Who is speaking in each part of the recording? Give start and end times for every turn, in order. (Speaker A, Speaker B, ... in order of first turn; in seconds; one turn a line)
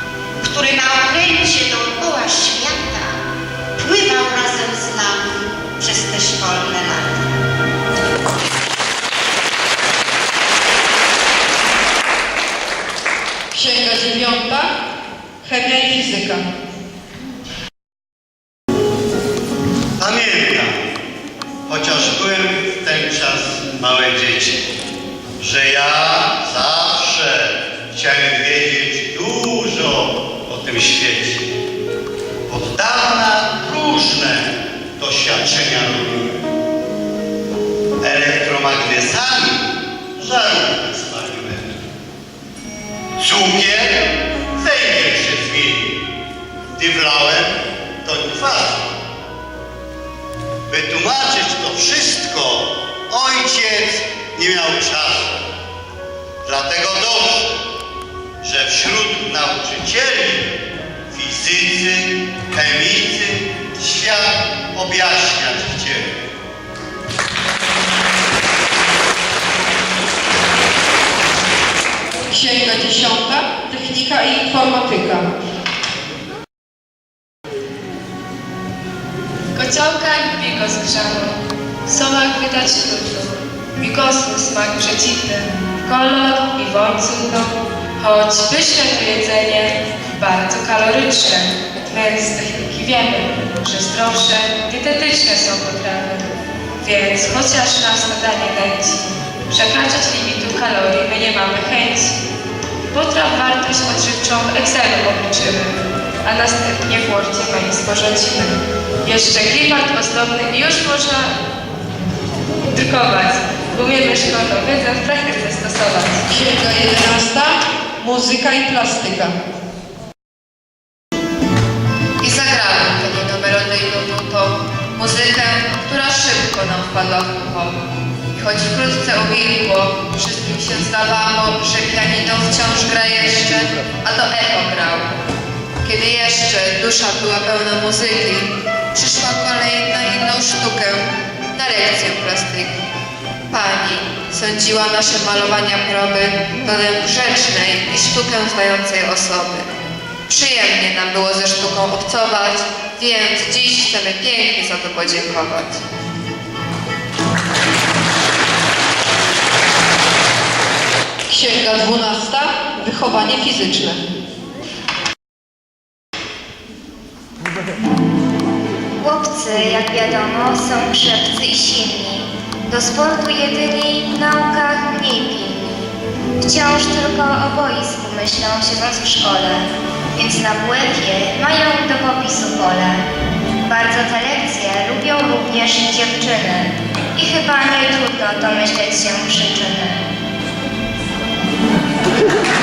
Speaker A: 0.4-3.1
Speaker A: 3.8-7.2
Speaker B: 13.5-14.7
Speaker B: 15.4-16.4
Speaker C: 20.0-20.8
Speaker C: 21.7-24.7
Speaker C: 25.4-31.4
Speaker C: 32.5-36.4
Speaker C: 38.0-39.6
Speaker C: 40.2-41.8
Speaker C: 43.2-46.0
Speaker C: 46.7-48.8
Speaker C: 50.7-55.3
Speaker C: 56.4-57.5
Speaker C: 58.4-60.5
Speaker C: 61.1-66.1
Speaker B: 72.3-75.3
Speaker D: 79.5-96.3
Speaker D: 96.8-102.2
Speaker D: 102.9-111.3
Speaker D: 112.7-116.2
Speaker B: 116.3-119.3
Speaker E: 122.2-127.7
Speaker E: 128.3-135.1
Speaker E: 135.8-142.7
Speaker E: 143.5-149.7
Speaker E: 150.3-155.8
Speaker B: 161.3-164.0
Speaker F: 169.0-175.8
Speaker F: 176.4-179.6
Speaker F: 180.1-183.0
Speaker F: 183.7-190.0